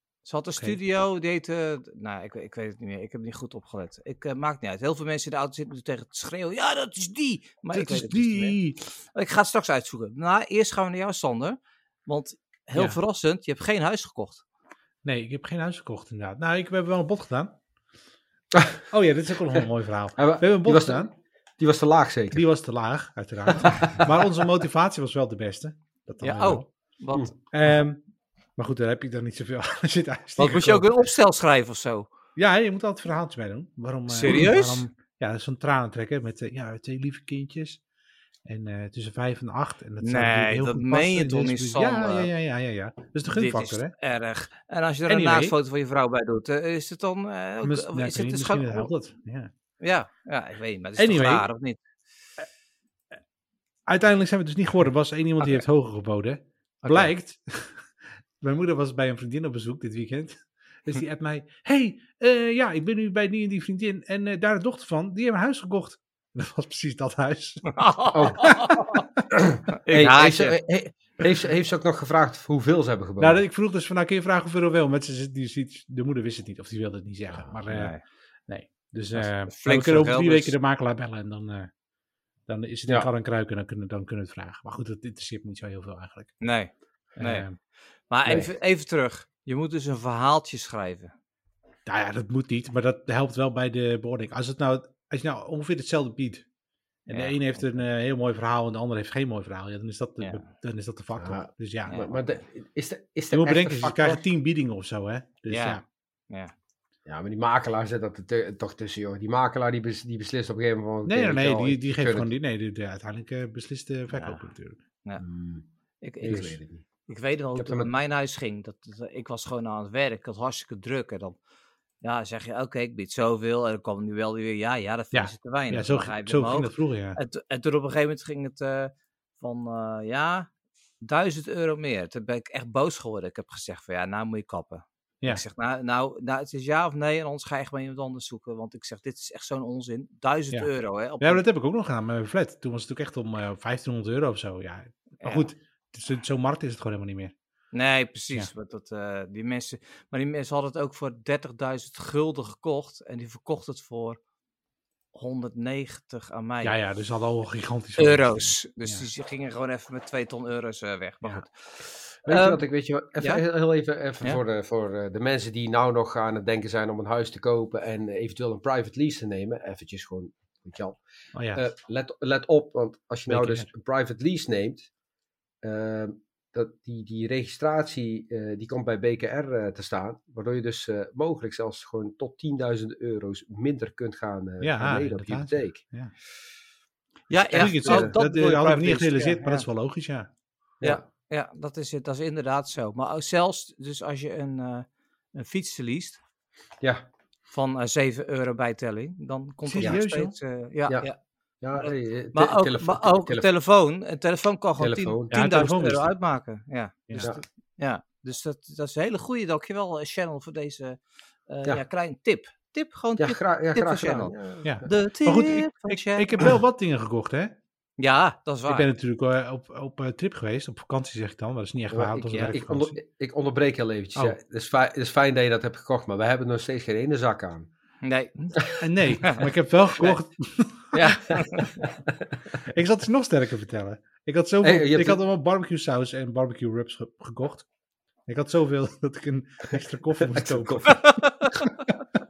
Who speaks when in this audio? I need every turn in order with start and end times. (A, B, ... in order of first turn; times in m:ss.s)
0:00.2-0:08.6 A
0:07.7-0:08.8 B
0:09.1-0:14.4 A
0:15.0-0:17.6 B
0:18.6-0:18.8 C
0:18.9-0:21.1 B
0:20.2-0:22.4 C
0:22.3-0:26.7 B
0:23.5-0:24.1 C
0:26.2-0:27.3 A
0:27.5-0:28.0 B
0:28.6-0:30.9 B
0:30.4-0:32.1 A
0:32.4-0:37.8 B
0:34.1-0:34.8 A
0:38.4-0:43.9 B
0:40.0-0:42.3 A
0:43.3-0:48.9 A
0:45.1-0:45.6 B
0:47.6-0:49.5 B
0:49.8-0:51.8 A
0:51.0-0:51.5 B
0:53.9-1:08.7 B
0:56.8-0:57.1 C
1:07.7-1:09.0 A
1:08.1-1:13.4 C
1:09.8-1:10.6 A
1:13.2-1:18.0 B
1:17.7-1:18.0 A
1:18.5-1:21.7 B
1:19.1-1:20.6 A
1:22.5-1:26.4 B
1:26.4-1:27.5 A
1:27.2-1:27.6 B
1:28.1-1:31.1 A
1:28.3-1:28.5 C
1:31.9-1:36.5 B
1:37.1-1:37.7 A
1:37.1-1:42.0 B
1:41.2-1:44.2 C
1:43.3-1:45.8 B
1:45.5-1:46.5 A
1:47.1-1:52.3 C
1:51.1-1:54.8 B
1:54.1-1:54.5 A
1:55.2-1:55.6 C
1:56.0-2:01.4 A
1:56.2-1:56.8 C
1:57.6-1:57.9 C
2:02.0-2:10.5 A
2:05.1-2:07.2 B
2:11.0-2:21.4 A
2:21.2-2:27.3 B
2:25.2-2:25.5 A
2:27.7-2:34.2 A
2:35.1-2:36.8 A
2:36.6-2:39.0 B
2:38.0-2:42.6 A
2:42.3-2:51.0 C
2:51.4-2:51.6 B
2:51.5-2:54.9 C
2:53.3-2:53.7 B
2:55.6-3:05.8 C
3:04.6-3:06.1 B
3:07.3-3:09.7 A
3:07.4-3:08.1 C
3:07.6-3:10.3 B
3:10.8-3:16.2 A
3:17.5-3:21.2 A
3:19.6-3:20.4 B
3:21.6-3:23.5 C
3:21.7-3:36.4 A
3:24.8-3:25.4 C
3:25.3-3:26.1 B
3:33.2-3:34.8 C
3:34.6-3:37.6 B
3:38.0-3:38.9 A
3:38.7-3:43.0 B
3:41.9-3:47.7 C
3:48.0-3:49.4 A
3:48.8-3:51.0 B
3:50.9-3:51.8 A
3:51.4-3:51.9 C
3:52.6-3:57.7 B
3:54.6-3:55.2 C
3:58.3-4:01.2 B
4:00.2-4:01.3 C
4:01.0-4:01.7 A